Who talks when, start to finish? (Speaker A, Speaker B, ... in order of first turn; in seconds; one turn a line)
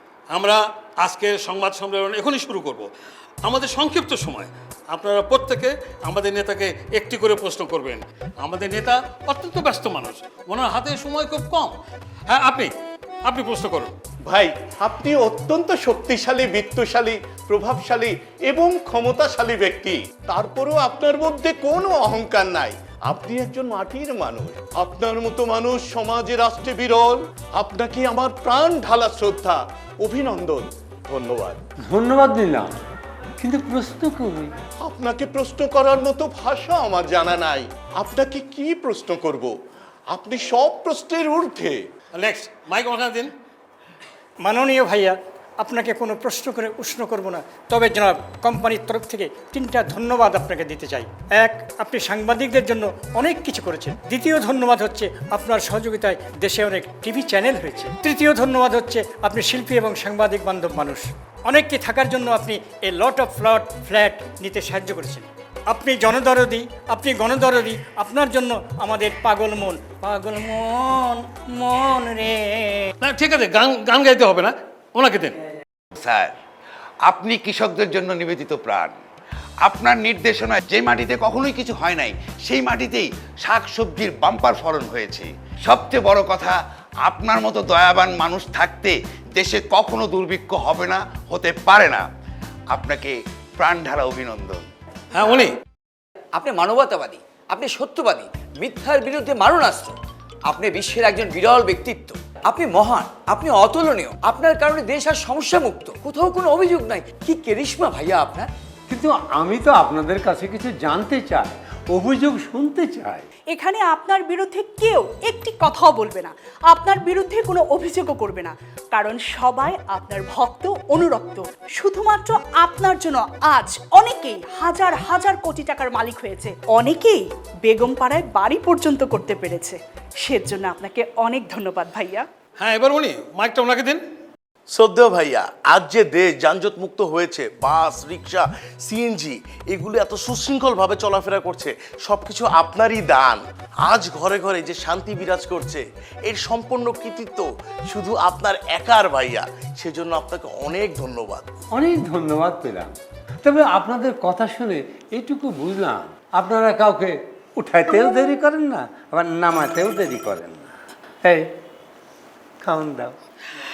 Speaker A: 0.3-2.9
Speaker A: 3.4-11.8
Speaker A: 12.3-12.7
Speaker A: 13.2-13.9
Speaker B: 14.2-31.6
Speaker C: 31.9-32.7
Speaker C: 33.4-34.5
Speaker B: 34.8-39.5
Speaker B: 40.1-41.8
Speaker A: 42.1-43.3
Speaker D: 44.4-72.9
Speaker A: 73.0-75.3
Speaker E: 76.0-76.3
Speaker E: 77.0-78.9
Speaker E: 79.6-92.0
Speaker E: 92.7-94.7
Speaker A: 95.1-95.5
Speaker F: 96.3-108.5
Speaker C: 108.9-113.2
Speaker G: 113.5-132.3
Speaker A: 132.6-134.0
Speaker H: 134.7-151.4
Speaker C: 151.7-160.7
Speaker C: 162.6-163.2